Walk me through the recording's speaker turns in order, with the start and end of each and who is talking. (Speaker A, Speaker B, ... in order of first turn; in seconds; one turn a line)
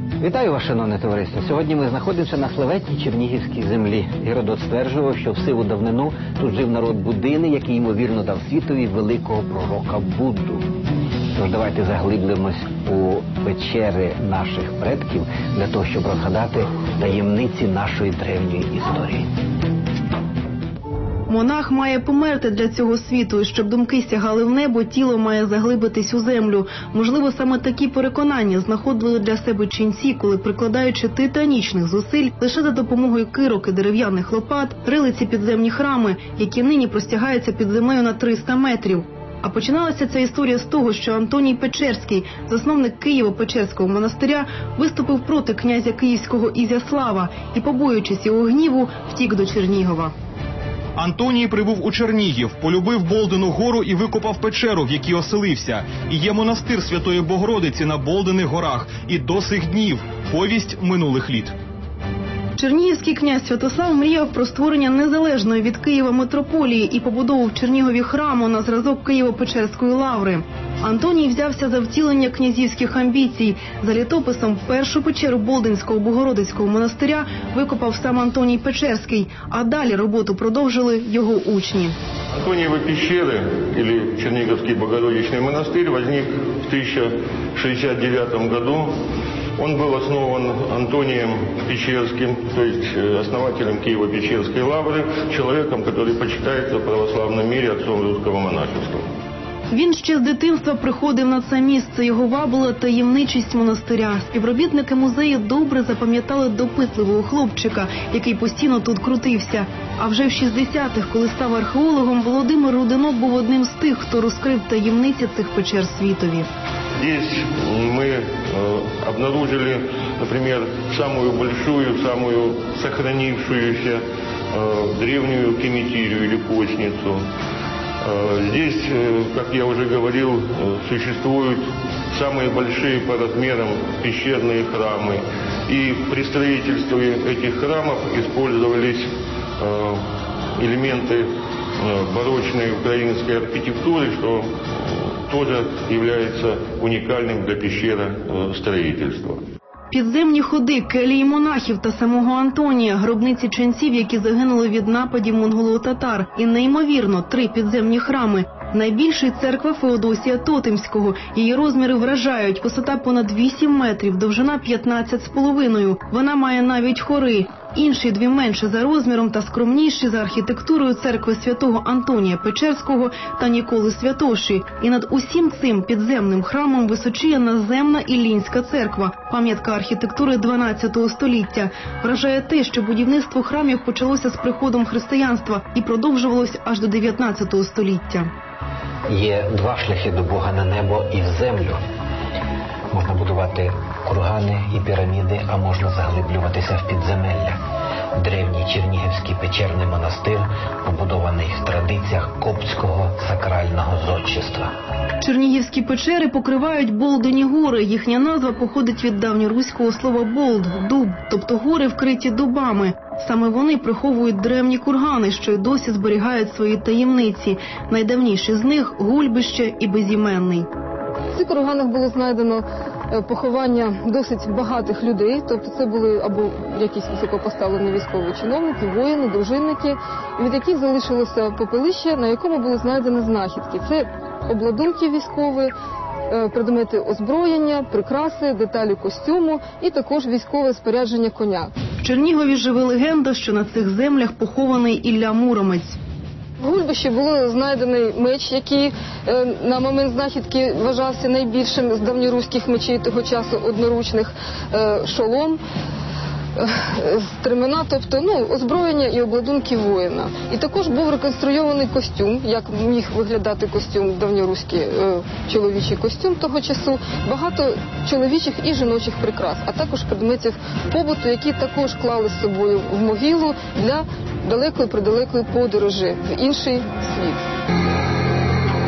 Speaker A: 0.2-10.6
Speaker A: 11.3-19.3
Speaker B: 21.3-50.1
Speaker C: 51.0-61.5
Speaker B: 62.6-82.0
Speaker D: 82.4-88.9
Speaker D: 89.6-99.0
Speaker B: 99.7-116.5
Speaker D: 117.0-127.2
Speaker D: 128.0-140.0
Speaker D: 140.6-149.4
Speaker B: 149.9-188.3
Speaker A: 189.1-191.8
Speaker A: 192.9-197.6
Speaker A: 198.2-204.7
Speaker B: 205.2-220.7
Speaker E: 221.3-235.7
Speaker E: 236.3-241.7
Speaker B: 242.0-246.0
Speaker E: 246.6-255.6
Speaker E: 256.6-277.5